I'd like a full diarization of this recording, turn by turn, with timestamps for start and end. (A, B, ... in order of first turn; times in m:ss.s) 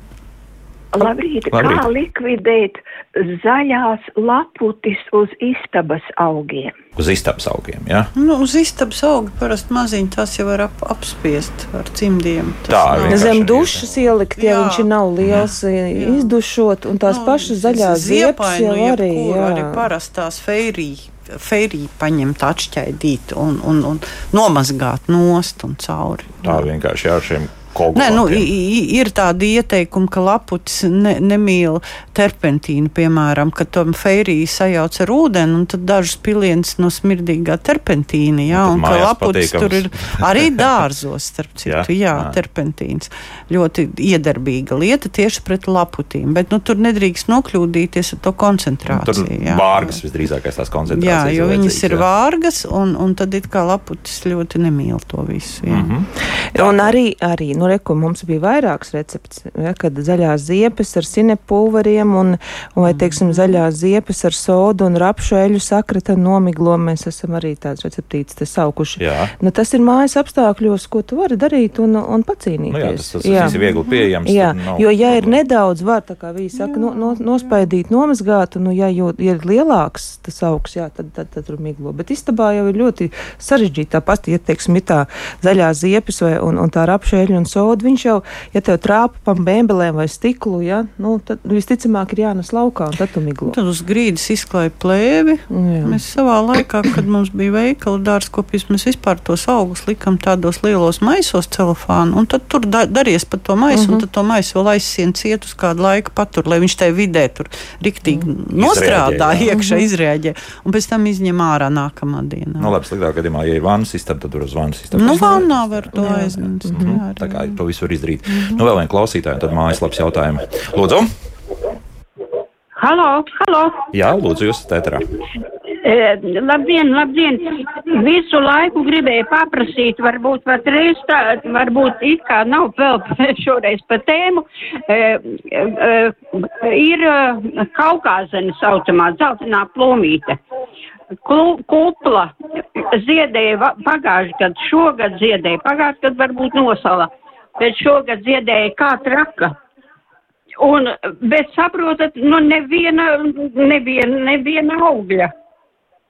0:00.9-0:06.7 A
0:01.5-0:01.9 B
0:07.0-0:08.1 B
0:08.2-0:13.3 C
0:12.7-0:14.0 B
0:13.1-0:19.8 D
0:14.4-0:14.9 C
0:15.2-0:15.5 B
0:15.9-0:16.3 C
0:17.0-0:26.6 C
0:26.4-0:28.5 B
0:28.0-0:50.0 C
0:38.5-0:40.7 B
0:41.6-0:42.4 B
0:48.9-0:52.0 B
0:50.9-0:55.9 C
0:55.7-0:57.0 B
0:56.5-1:13.6 D
1:02.9-1:03.6 C
1:09.0-1:09.3 B
1:12.7-1:15.4 B
1:13.4-1:14.0 C
1:14.2-1:33.6 D
1:16.6-1:17.6 C
1:33.5-1:52.8 C
1:35.5-1:36.0 D
1:43.7-1:44.0 D
1:48.5-1:49.5 B
1:49.5-1:49.9 D
1:52.6-2:01.1 B
1:55.0-1:57.6 C
1:56.0-1:57.0 D
1:58.3-1:58.6 C
2:02.8-2:03.9 E
2:03.9-2:05.1 B
2:05.8-2:20.4 E
2:21.2-2:29.6 E
2:30.6-2:35.3 E